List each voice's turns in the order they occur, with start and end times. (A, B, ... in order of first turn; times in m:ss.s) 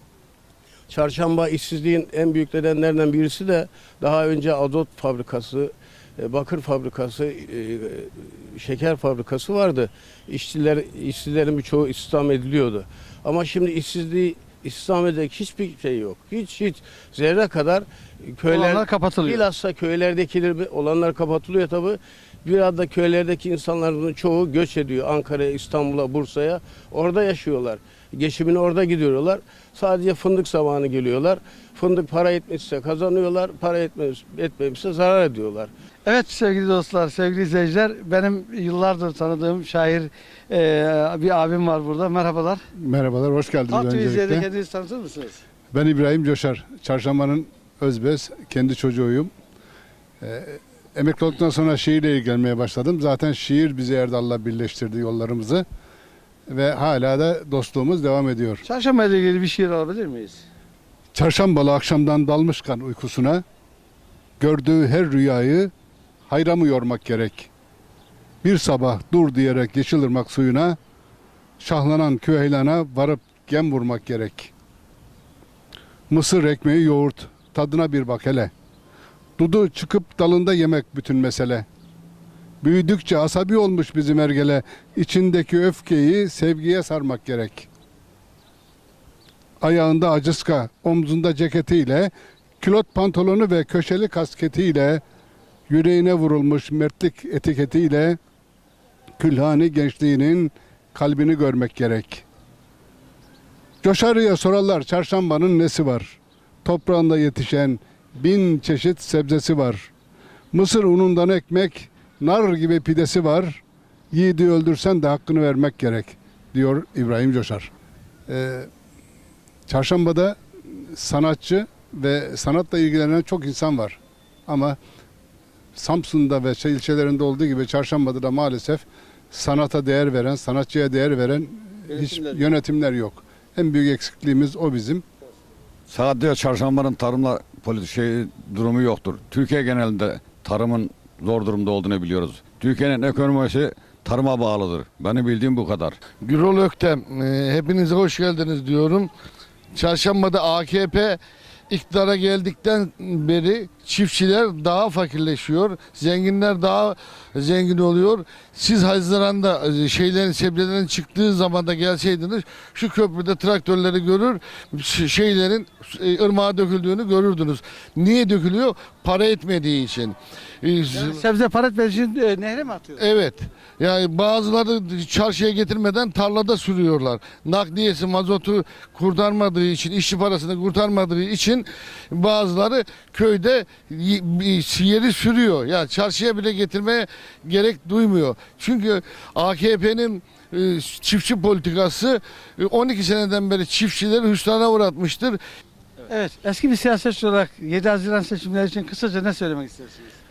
0:00.9-0:35.7 A
0:18.5-0:19.4 B
0:36.0-0:42.6 B
0:42.8-0:44.4 C
0:43.7-0:45.4 B
0:45.7-0:49.3 C
0:50.2-0:55.6 C
0:56.5-0:58.6 C
0:58.6-1:00.4 B
1:01.1-1:03.4 C
1:04.4-1:05.7 C
1:06.3-1:07.5 C
1:08.4-1:10.8 C
1:11.6-1:14.5 C
1:16.1-1:18.5 C
1:19.4-1:21.6 C
1:22.6-1:27.7 C
1:29.6-1:35.0 C
1:35.7-1:38.2 C
1:39.2-1:42.2 C
1:43.8-1:49.9 C
1:50.5-1:53.6 C
1:54.1-1:57.7 C
1:58.3-1:58.7 C
1:59.7-2:00.4 C
2:00.9-2:04.8 C
2:05.8-2:15.0 C
2:11.9-2:12.4 B
2:15.9-2:26.0 D
2:26.2-2:29.1 E
2:29.7-2:31.2 E
2:31.7-2:51.2 E
2:50.9-2:53.0 B
2:53.0-3:15.4 E
3:16.1-3:20.2 B